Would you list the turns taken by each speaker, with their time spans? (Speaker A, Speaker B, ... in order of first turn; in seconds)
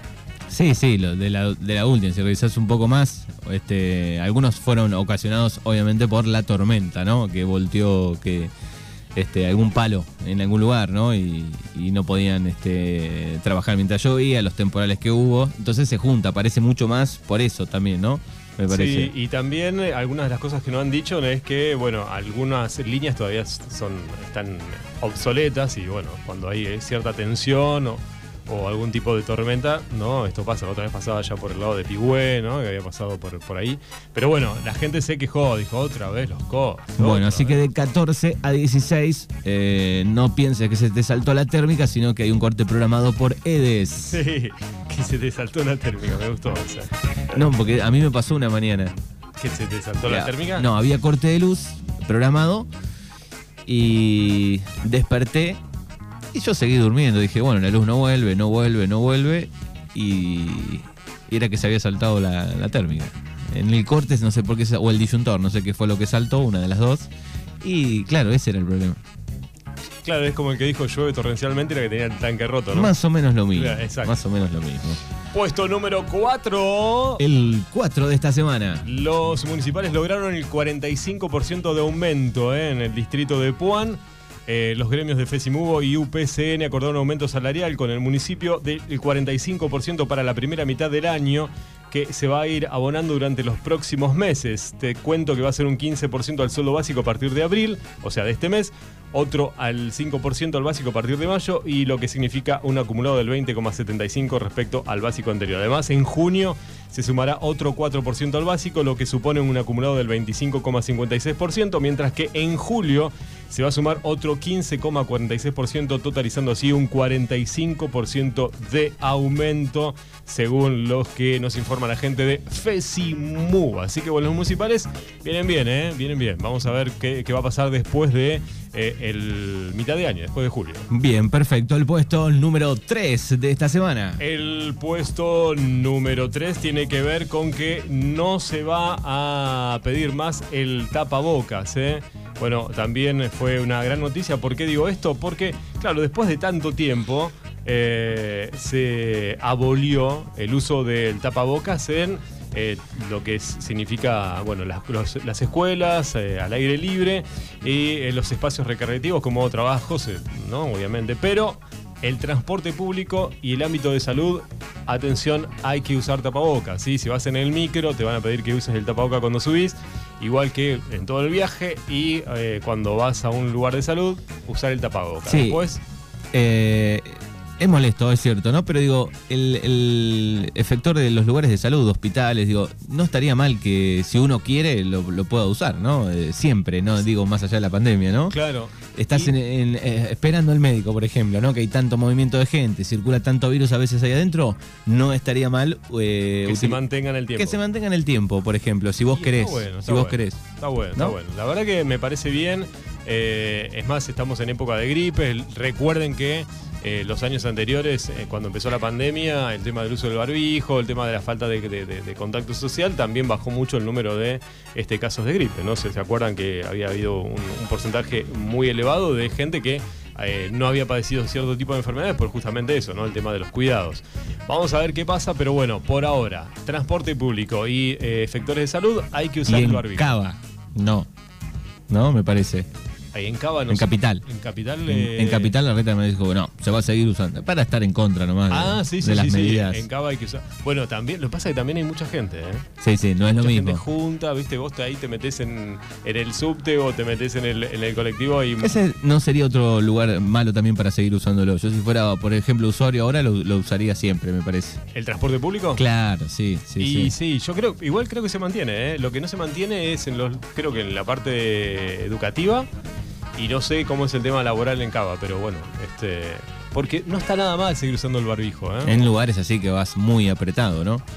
Speaker A: 0.5-8.5, 9.2-19.1, 37.0-44.2, 47.3-48.9, 50.1-52.7, 53.7-55.6, 56.3-67.1, 67.6-69.0, 72.7-75.0, 77.2-78.8, 130.9-134.2, 175.3-175.6, 176.3-188.4, 189.0-196.8, 197.4-200.4, 229.5-231.1, 231.9-232.7, 233.7-234.2, 234.9-239.8, 242.8-243.8, 248.6-254.8, 255.8-257.1, 268.9-271.0
Speaker B: 18.7-37.6, 44.0-46.9, 49.4-50.7, 70.0-72.9, 73.5-74.2, 75.3-77.2, 78.8-130.9, 134.2-175.8, 188.3-189.3, 196.4-197.6, 199.1-230.2, 233.1-235.6, 238.5-242.7, 243.3-248.8, 254.9-255.8, 256.8-262.7, 263.4-269.0